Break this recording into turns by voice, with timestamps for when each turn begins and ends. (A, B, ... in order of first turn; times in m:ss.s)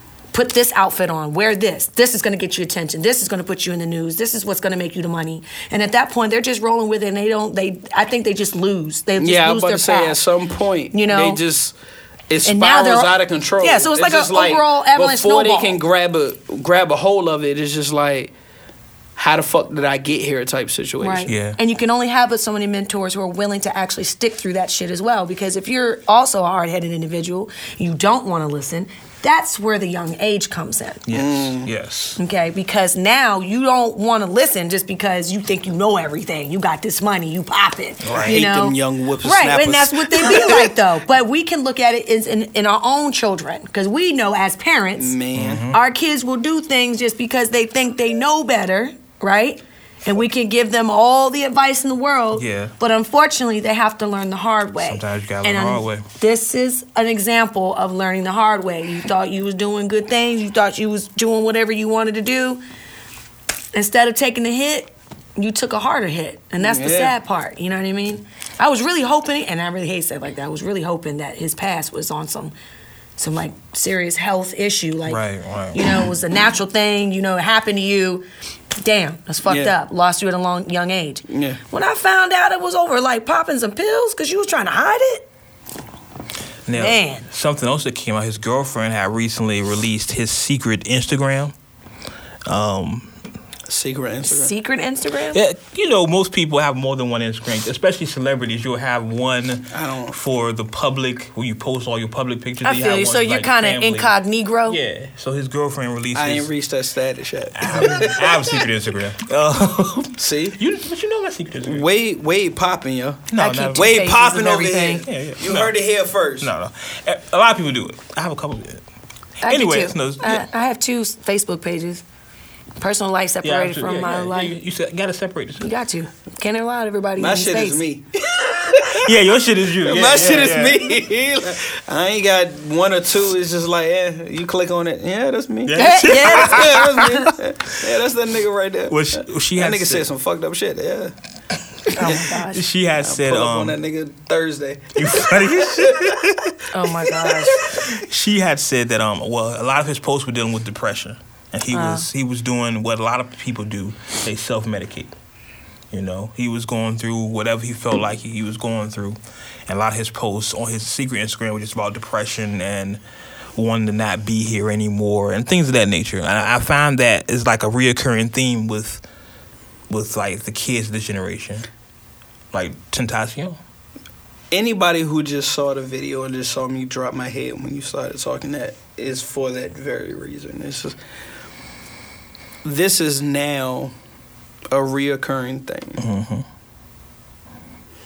0:00.3-0:10.2 A
0:09.2-0:11.8 B
0:10.9-0:11.4 A
0:12.3-0:18.3 B
0:12.4-0:15.8 A
0:19.2-0:21.3 B
0:21.0-0:31.0 A
0:21.3-0:21.6 C
0:31.1-0:32.2 C
0:31.1-0:31.7 B
0:32.2-0:45.2 A
0:38.0-0:38.4 C
0:38.2-0:40.7 B
0:45.0-0:45.7 B
0:45.4-0:45.8 C
0:45.7-1:02.6 A
0:52.3-0:52.7 C
0:54.8-0:56.1 C
1:03.7-1:12.5 A
1:06.6-1:07.2 B
1:13.2-1:15.2 A
1:15.1-1:15.8 C
1:15.7-1:18.3 A
1:18.8-1:25.3 A
1:19.5-1:19.8 B
1:21.3-1:21.6 B
1:26.7-1:31.5 C
1:26.8-1:27.3 A
1:32.5-1:33.1 C
1:33.7-1:34.5 B
1:34.2-1:35.4 A
1:35.3-1:44.1 C
1:39.7-1:40.2 B
1:42.6-1:44.8 A
1:44.7-1:46.5 C
1:46.2-1:48.7 B
1:47.6-1:51.9 C
1:50.2-1:50.6 B
1:51.6-1:56.5 B
1:53.3-1:53.9 C
1:53.4-1:55.0 A
1:55.0-1:55.8 C
1:56.4-1:58.8 C
1:59.4-2:00.4 C
1:59.4-2:02.0 A
2:02.8-2:04.6 A
2:03.4-2:05.7 C
2:05.6-2:07.8 A
2:07.2-2:09.1 B
2:08.9-2:11.0 C
2:09.8-2:21.1 B
2:15.6-2:17.2 C
2:15.8-2:17.2 A
2:18.9-2:20.1 C
2:21.9-2:22.6 A
2:22.0-2:23.8 C
2:23.0-2:26.4 B
2:25.0-2:26.5 C
2:26.7-2:27.6 A
2:27.2-2:27.8 B
2:27.8-2:35.1 C
2:31.7-2:32.1 A
2:35.9-2:43.0 C
2:43.6-2:49.0 C
2:49.9-2:51.7 C
2:52.5-2:53.6 C
2:54.5-3:01.0 B
3:02.6-3:03.9 B
3:04.7-3:06.0 B
3:06.0-3:06.5 C